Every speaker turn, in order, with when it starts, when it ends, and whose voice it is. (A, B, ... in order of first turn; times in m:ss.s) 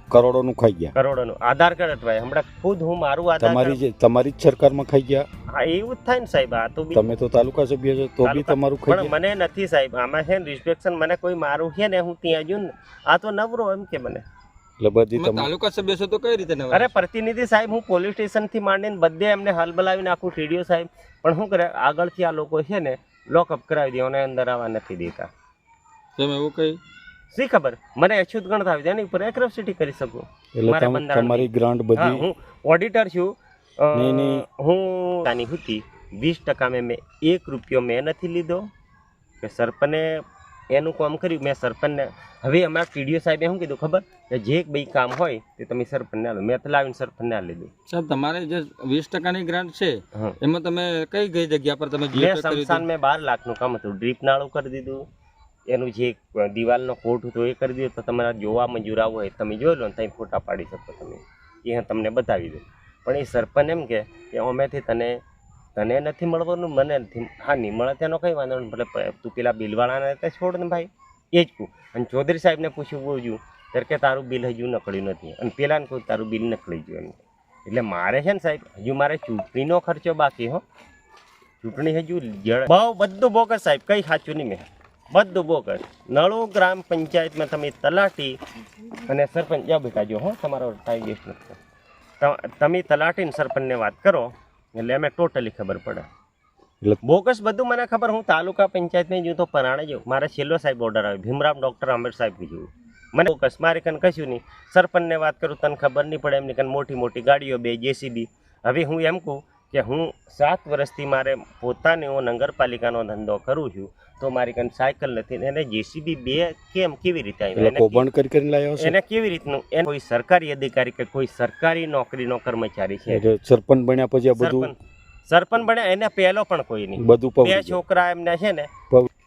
0:00.1-0:00.9 A
0:00.9-0:03.8 B
0:03.4-0:05.2 A
0:05.5-0:07.1 B
0:06.9-0:09.1 A
0:08.2-0:14.2 B
0:14.8-0:15.5 A
0:15.2-0:17.0 C
0:16.7-0:25.3 B
0:26.2-0:26.8 C
0:27.3-0:38.6 B
0:30.5-0:32.2 A
0:33.9-0:34.4 A
0:39.4-0:47.7 B
0:47.9-0:52.8 C
0:52.1-0:55.0 B
0:55.7-1:05.2 B
1:05.8-1:20.6 B
1:21.6-1:28.4 B
1:29.0-1:31.6 B
1:32.2-1:36.0 B
1:37.0-1:58.0 B
1:57.6-1:58.9 A
1:58.8-2:03.2 B
2:03.1-2:04.7 A
2:04.4-2:04.8 B
2:05.3-2:08.7 B
2:07.0-2:07.8 A